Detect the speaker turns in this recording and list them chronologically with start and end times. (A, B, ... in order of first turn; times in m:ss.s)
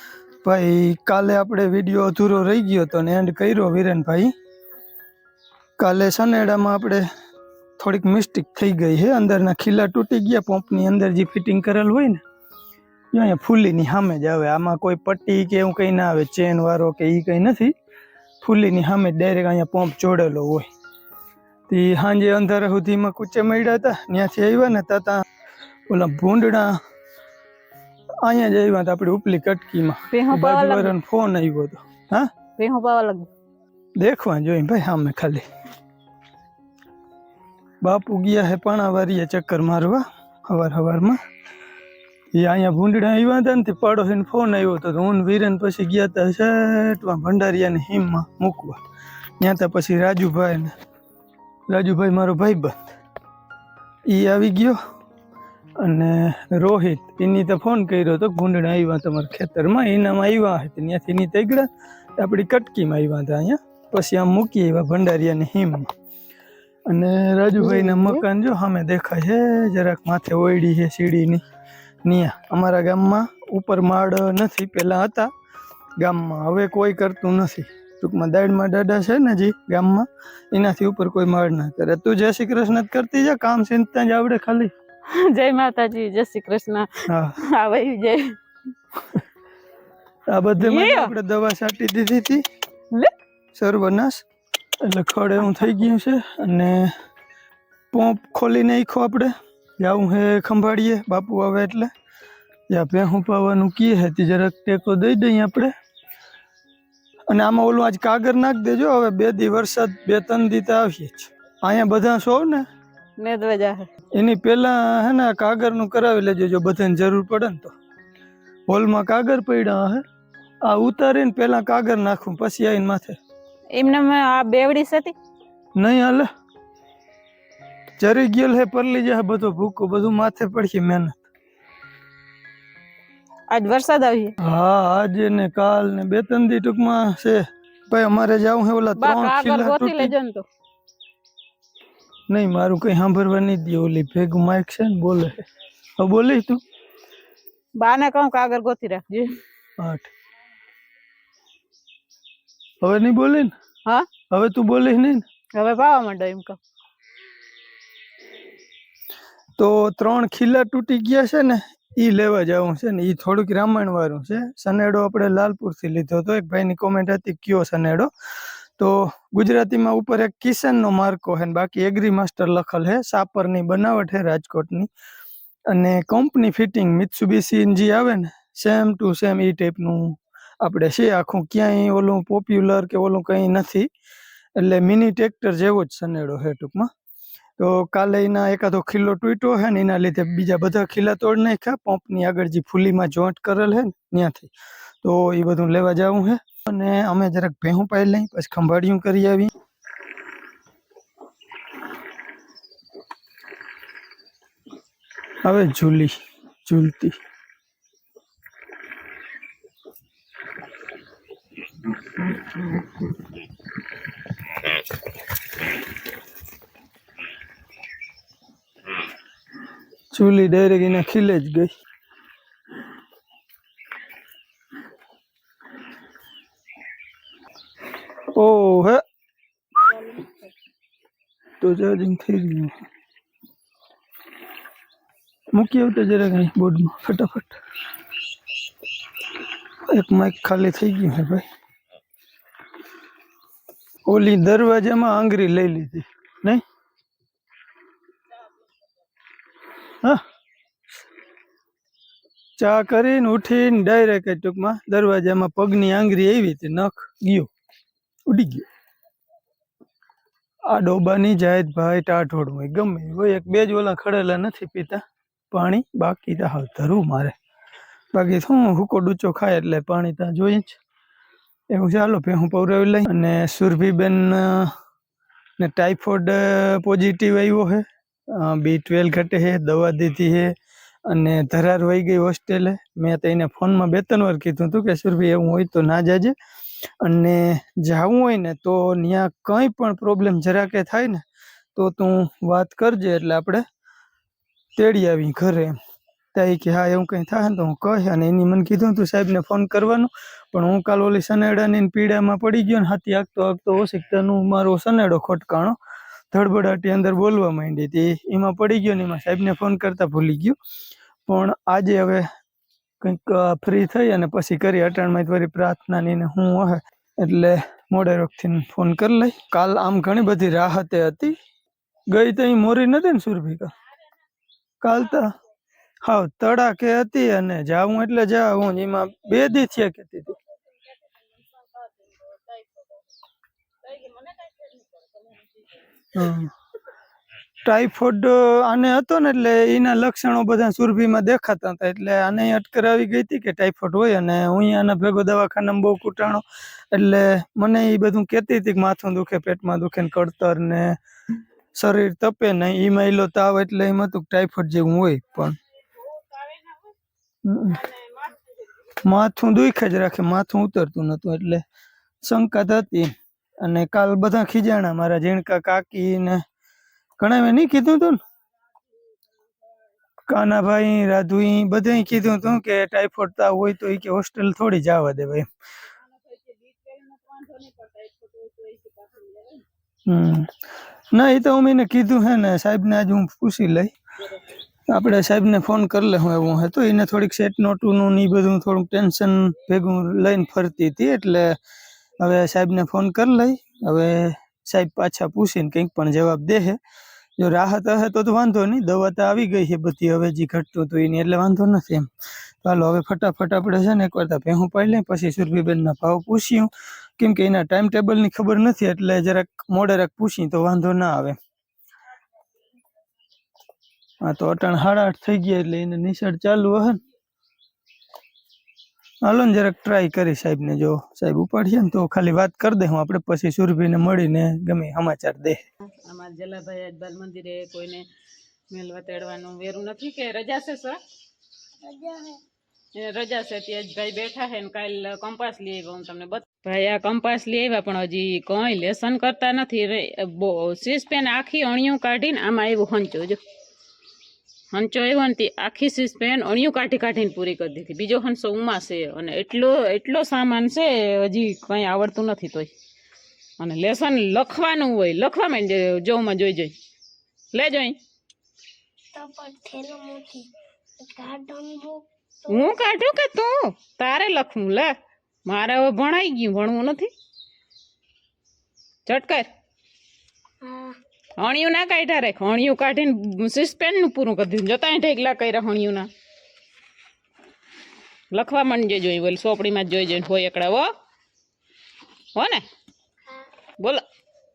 0:00.4-0:04.3 A
0:05.8-0:07.0 A
0:07.8-0:12.2 A
0:13.1-0:17.7 A
0:18.4-0:20.7 A
0:21.7-0:25.2 A
0:25.9-0:26.8 A
0:28.2-0:32.3 A
0:30.1-0:31.0 B
0:32.6-0:33.3 B
0:34.0-0:35.4 A
0:37.8-0:41.2 A
0:42.3-0:48.8 A
0:49.4-0:50.7 A
0:51.7-0:53.0 A
0:54.1-0:54.8 A
0:55.8-1:05.9 A
1:06.9-1:11.4 A
1:07.6-1:08.2 B
1:12.0-1:15.3 A
1:16.0-1:24.7 A
1:25.1-1:28.4 B
1:27.1-1:27.4 A
1:30.3-1:32.4 A
1:30.6-1:31.1 B
1:33.5-1:34.2 A
1:34.8-1:36.9 A
1:37.9-1:41.9 A
1:42.7-1:45.7 A
1:47.3-1:52.7 A
1:53.2-1:53.9 B
1:54.1-1:57.7 A
1:58.7-2:00.0 A
2:00.6-2:03.2 A
2:03.7-2:05.2 B
2:05.8-2:06.3 A
2:08.0-2:11.2 A
2:13.5-2:14.3 B
2:14.4-2:20.1 A
2:19.0-2:20.4 B
2:22.3-2:25.5 A
2:26.0-2:26.6 A
2:27.8-2:29.3 B
2:29.8-2:30.1 A
2:32.8-2:33.5 A
2:34.3-2:35.2 A
2:35.6-2:36.6 B
2:39.6-2:48.1 A
2:48.8-2:54.9 A
2:55.7-3:03.9 A
3:04.6-3:06.9 A
3:07.6-3:14.5 A
3:15.0-3:19.5 A
3:25.4-3:27.2 A
3:40.1-3:41.7 A
3:48.3-3:49.0 A
3:51.6-3:52.8 A
3:55.5-3:57.6 A
3:59.9-4:01.4 A
4:04.1-4:06.6 A
4:12.6-4:17.5 A
4:18.3-4:18.7 A
4:20.7-4:27.4 A
4:28.1-4:30.8 A
4:31.7-4:34.7 A
4:35.6-4:40.5 A
4:41.1-4:46.4 A
4:47.0-4:51.2 A
4:51.8-4:53.6 A
4:54.8-4:55.8 A
4:56.3-5:05.8 A
5:06.3-5:10.6 A
5:11.3-5:12.3 A
5:13.0-5:21.4 A
5:22.1-5:23.7 A
5:24.8-5:25.3 A
5:26.0-5:30.4 A
5:31.6-5:32.9 B
5:33.8-5:35.5 B
5:36.1-5:36.5 A
5:37.6-5:51.0 A
5:51.7-5:55.6 A
5:56.2-5:56.8 B
5:57.4-5:57.9 A
5:58.0-5:58.4 B
5:58.9-6:01.6 A
6:02.2-6:06.4 A
6:07.2-6:08.2 A
6:10.3-6:15.5 A
6:16.1-6:19.6 B
6:20.1-6:20.5 A
6:21.1-6:23.9 A
6:24.9-6:31.6 A
6:32.2-6:36.8 A
6:37.4-6:42.1 A
6:42.6-6:51.4 A
6:54.2-6:57.0 A
6:59.2-7:05.6 A
7:06.0-7:08.1 B
7:08.7-7:11.0 B
7:11.8-7:12.4 C
7:13.0-7:23.4 B
7:24.7-7:32.7 B
7:33.6-7:36.8 B
7:37.5-7:38.0 B
7:39.1-7:42.8 C
7:42.5-7:45.0 B
7:45.5-7:47.1 B
7:49.1-7:49.5 B
7:50.6-7:51.0 C
7:51.4-7:56.1 B
7:58.3-8:00.9 B
8:02.4-8:02.6 B